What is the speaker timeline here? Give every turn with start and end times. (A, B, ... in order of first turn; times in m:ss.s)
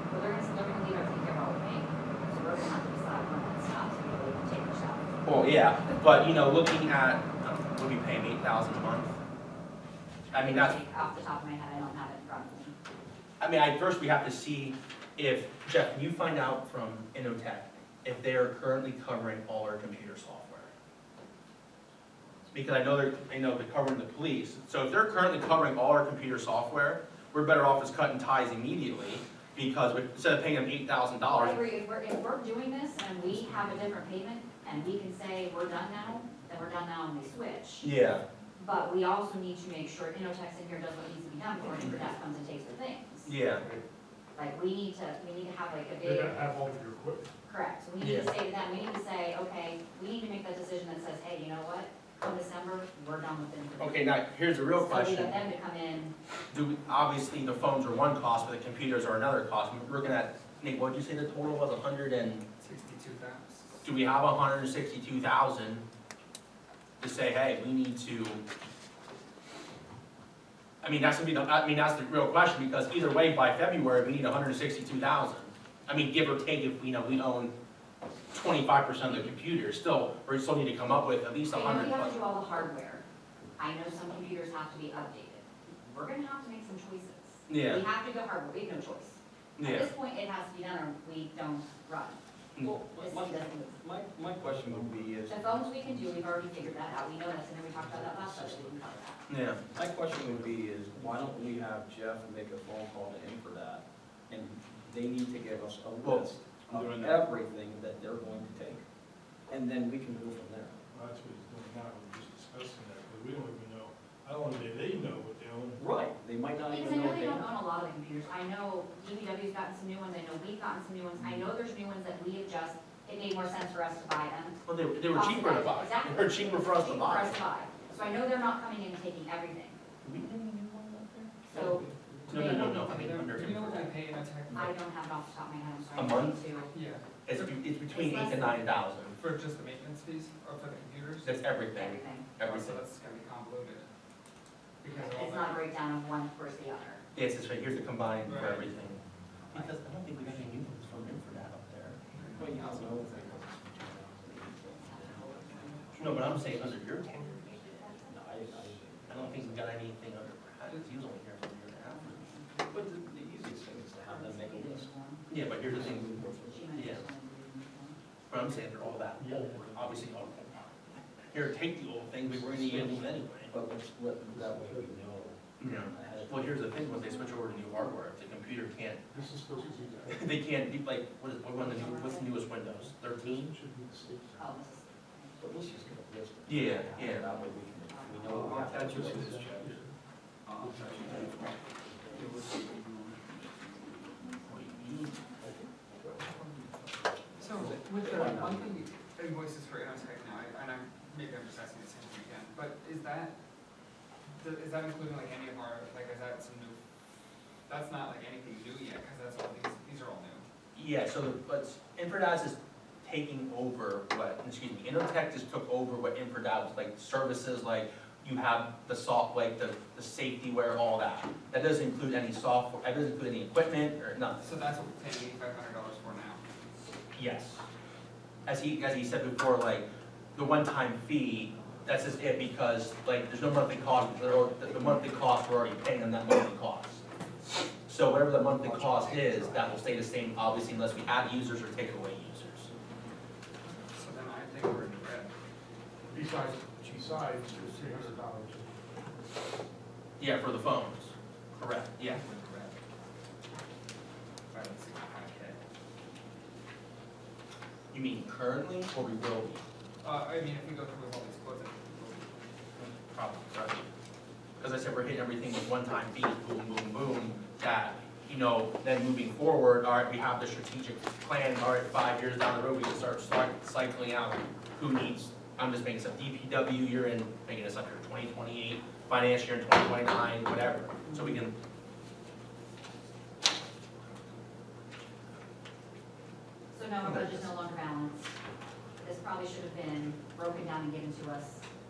0:00.1-0:06.0 A
0:05.2-0:09.2 B
0:10.3-0:12.7 A
0:10.3-0:10.8 B
0:13.4-0:20.7 B
0:22.5-0:31.6 B
0:31.3-0:37.9 A
0:37.8-0:38.2 B
0:38.6-0:43.4 A
0:43.2-0:43.6 B
0:43.5-0:43.8 C
0:44.3-0:46.4 A
0:46.0-0:47.3 C
0:47.4-0:56.1 A
0:48.0-0:48.3 B
0:53.8-0:55.4 B
0:56.5-1:02.4 B
1:02.6-1:03.8 D
1:03.8-1:05.8 B
1:07.0-1:08.4 B
1:10.8-1:17.5 B
1:18.3-1:22.2 B
1:21.5-1:23.0 A
1:23.6-1:32.2 A
1:27.5-1:27.8 B
1:29.6-1:29.9 B
1:32.6-1:35.6 E
1:32.9-1:33.8 A
1:34.3-1:36.7 C
1:35.3-1:39.3 A
1:37.8-1:38.8 C
1:39.3-1:39.6 B
1:39.7-1:41.5 C
1:39.7-1:48.8 E
1:46.0-1:46.3 B
1:46.7-1:47.3 C
1:49.5-1:50.8 E
1:50.9-1:55.8 C
1:55.8-1:57.5 E
1:56.7-2:09.8 A
2:04.6-2:07.4 B
2:10.0-2:11.6 B
2:11.5-2:13.1 A
2:11.5-2:14.7 D
2:12.3-2:13.9 B
2:14.5-2:16.7 A
2:16.0-2:16.4 B
2:16.7-2:17.0 D
2:17.2-2:19.1 B
2:17.9-2:18.7 A
2:19.1-2:21.4 D
2:21.2-2:22.8 B
2:21.7-2:22.4 A
2:22.4-2:23.9 D
2:24.8-2:25.6 D
2:24.9-2:27.0 A
2:27.1-2:29.0 B
2:28.2-2:28.7 D
2:29.5-2:29.7 A
2:29.5-2:32.0 B
2:32.1-2:33.4 D
2:32.4-2:36.7 E
2:35.9-2:37.9 B
2:37.2-2:38.2 A
2:38.0-2:39.7 E
2:39.1-2:42.2 B
2:42.0-2:43.0 A
2:42.7-2:44.9 E
2:44.0-2:45.4 A
2:45.3-2:47.1 B
2:45.6-2:46.7 E
2:46.3-2:48.0 A
2:48.3-2:50.7 B
2:49.2-2:50.2 C
2:51.3-2:53.5 B
2:52.3-2:53.1 C
2:53.5-2:56.8 E
2:54.3-2:55.0 C
2:55.6-2:59.0 B
2:56.9-2:57.3 A
2:59.1-3:00.4 C
2:59.1-3:00.2 A
3:00.1-3:03.5 B
3:01.6-3:01.9 C
3:01.6-3:02.3 A
3:02.5-3:04.5 C
3:04.4-3:05.8 A
3:05.4-3:09.7 E
3:06.4-3:07.2 B
3:06.7-3:08.6 A
3:08.3-3:09.9 C
3:10.4-3:11.1 D
3:10.6-3:11.2 C
3:12.2-3:12.7 D
3:14.4-3:15.2 B
3:17.4-3:23.3 D
3:17.6-3:18.8 E
3:24.4-3:26.8 D
3:27.7-3:30.4 D
3:30.7-3:44.4 B
3:44.4-3:46.4 D
3:47.1-3:47.6 B
3:48.4-3:57.0 B
3:57.8-4:02.7 B
4:03.9-4:05.3 D
4:06.1-4:08.8 C
4:10.2-4:12.2 B
4:12.0-4:12.7 D
4:14.5-4:15.6 D
4:17.9-4:19.6 B
4:20.0-4:22.5 D
4:22.8-4:23.8 B
4:24.6-4:41.5 B
4:41.0-4:41.4 A
4:46.7-4:48.3 A
4:47.0-4:47.5 B
4:49.0-4:51.6 A